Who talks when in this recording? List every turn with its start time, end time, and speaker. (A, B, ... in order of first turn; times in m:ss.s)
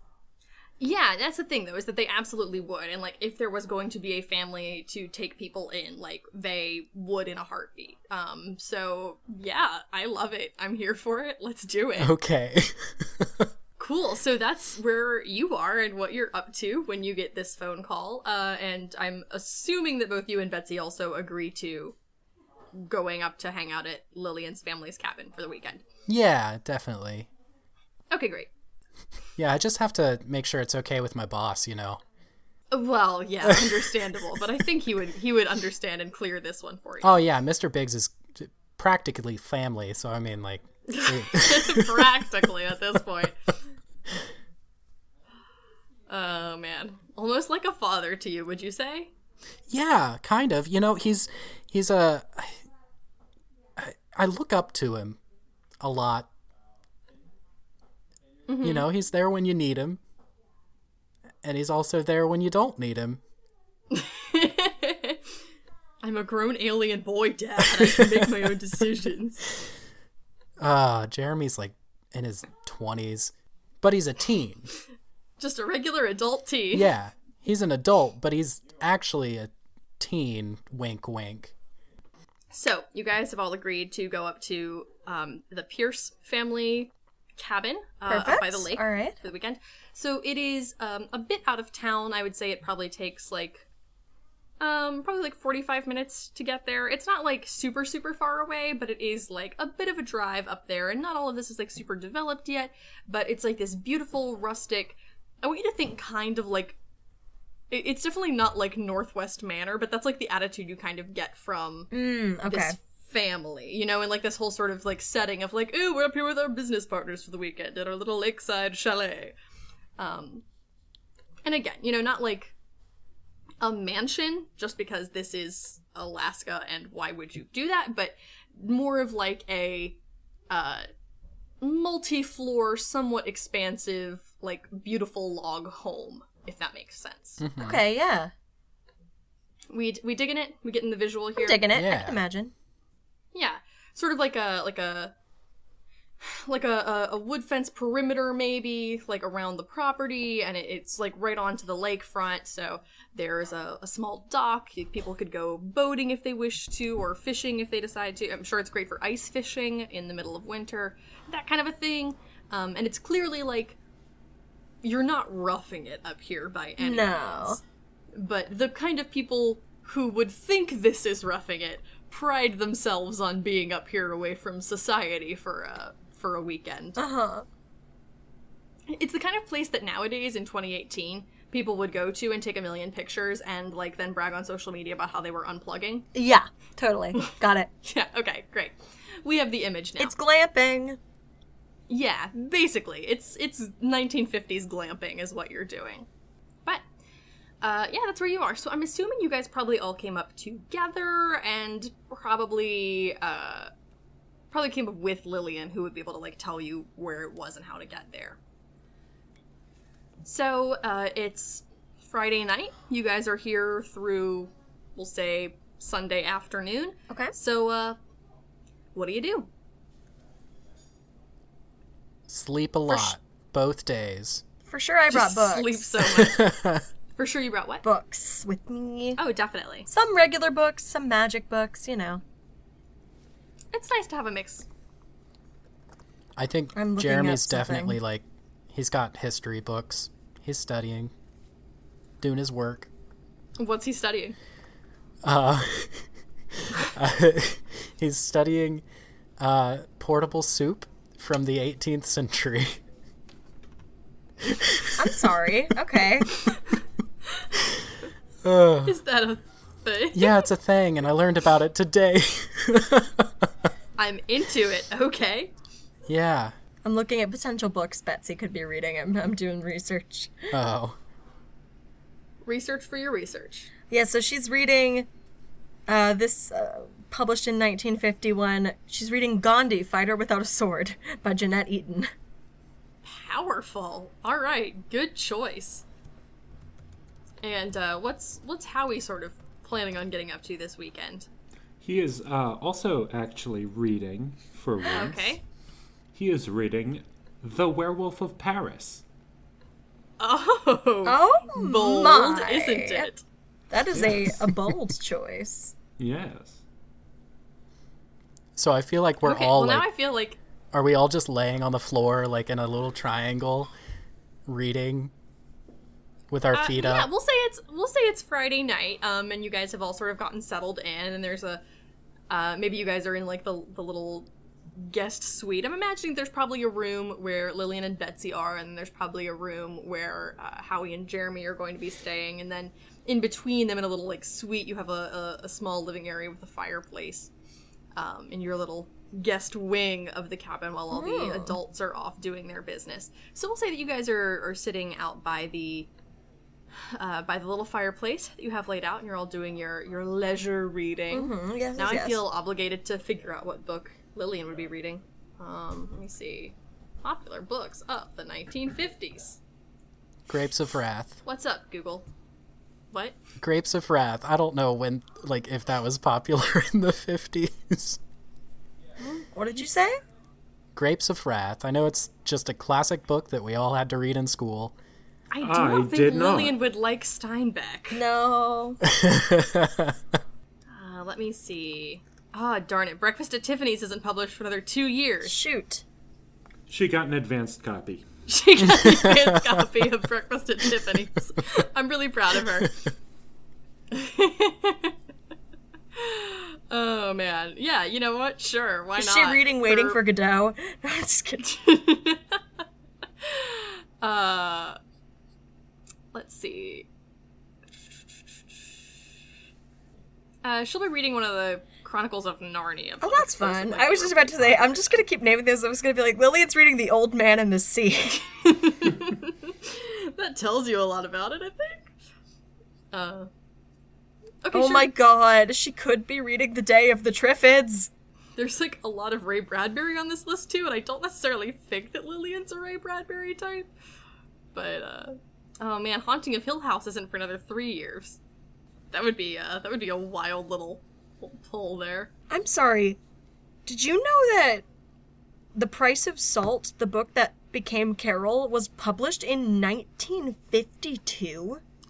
0:00.8-0:12.2 A
0:12.0-0:13.5 B
0:13.8-0:22.0 A
0:22.7-0:25.8 A
0:26.0-0:27.3 B
0:28.1-0:28.5 A
0:29.4-0:32.0 B
0:32.7-0:37.2 A
0:33.4-0:33.9 B
0:37.0-0:42.2 B
0:40.9-0:43.4 A
0:46.1-0:49.1 A
0:49.7-0:52.5 B
0:53.8-0:55.2 B
0:55.8-0:56.3 B
0:58.5-0:58.9 A
0:58.6-1:00.0 B
1:01.4-1:03.2 B
1:03.9-1:05.2 A
1:06.0-1:09.4 A
1:07.8-1:08.3 B
1:10.6-1:14.7 B
1:15.4-1:16.9 A
1:16.7-1:21.5 B
1:22.5-1:33.7 A
1:28.1-1:29.2 C
1:34.6-1:46.8 A
1:47.7-1:51.9 A
1:51.9-1:52.8 C
1:52.5-1:59.3 A
2:00.0-2:00.4 A
2:01.4-2:02.5 A
2:03.6-2:10.0 A
2:10.5-2:10.9 A
2:11.6-2:17.4 A
2:17.4-2:17.8 B
2:17.6-2:18.3 C
2:19.7-2:21.6 A
2:21.4-2:22.5 C
2:21.7-2:22.2 B
2:23.3-2:25.1 A
2:26.2-2:43.8 A
2:44.8-2:47.6 A
2:46.8-2:47.6 C
2:48.1-2:57.0 A
2:57.0-2:57.4 C
2:58.9-3:06.1 A
3:06.1-3:07.7 C
3:07.8-3:10.1 A
3:10.0-3:11.0 C
3:11.9-3:16.1 A
3:17.6-3:23.7 A
3:24.5-3:28.4 A
3:30.2-3:38.0 A
3:38.9-3:39.5 A
3:42.3-3:44.4 B
3:42.9-3:43.1 C
3:44.7-3:46.1 C
3:45.1-3:47.8 A
3:46.1-3:46.8 B
3:47.8-3:49.2 C
3:49.2-3:49.9 A
3:49.9-3:52.2 C
3:53.7-3:54.7 A
3:56.4-4:01.1 B
3:56.7-3:58.0 C
4:02.2-4:02.9 B
4:03.6-4:04.4 A
4:05.2-4:06.0 B
4:06.6-4:08.8 B
4:09.4-4:12.8 B
4:14.4-4:15.2 B
4:14.9-4:16.5 C
4:18.4-4:19.0 B
4:18.8-4:20.4 A
4:20.1-4:23.4 B
4:24.0-4:25.5 A
4:26.1-4:26.5 B
4:26.8-4:30.5 C
4:30.5-4:31.0 B
4:32.4-4:33.7 A
4:33.9-4:35.1 C
4:35.9-4:42.1 C
4:43.0-4:45.8 A
4:47.4-4:51.3 A
4:51.8-4:55.4 D
4:54.9-4:55.4 A
4:56.1-4:59.0 D
5:00.2-5:03.2 A
5:01.0-5:03.1 C
5:03.7-5:05.7 C
5:03.9-5:04.8 D
5:06.0-5:06.6 D
5:08.6-5:09.9 B
5:09.2-5:10.4 A
5:10.7-5:13.7 B
5:14.5-5:15.1 B
5:16.3-5:17.1 B
5:16.5-5:21.6 A
5:22.3-5:37.3 A
5:38.0-5:45.9 A
5:40.9-5:41.6 C
5:46.9-5:59.4 A
5:51.1-5:52.2 C
6:00.3-6:01.2 B
6:01.2-6:02.1 A
6:02.9-6:03.2 A
6:03.4-6:08.0 B
6:09.2-6:10.0 C
6:10.7-6:14.7 B
6:15.3-6:18.0 A
6:15.4-6:16.6 D
6:17.9-6:18.8 C
6:18.8-6:20.0 B
6:20.7-6:25.4 A
6:25.2-6:25.8 C
6:26.7-6:28.0 D
6:28.3-6:32.8 A
6:29.0-6:29.5 B
6:33.9-6:34.9 A
6:35.9-6:40.0 A
6:39.0-6:41.6 C
6:41.4-6:42.4 A
6:43.2-6:44.8 A
6:46.1-6:46.9 A
6:50.4-6:55.0 A
6:53.0-6:58.2 C
6:58.1-7:01.9 A
7:02.9-7:03.3 A
7:04.4-7:04.9 A
7:04.5-7:07.9 C
7:08.4-7:13.7 A
7:14.5-7:18.2 A
7:18.9-7:22.1 A
7:22.3-7:23.0 C
7:23.6-7:24.6 C
7:25.5-7:31.6 C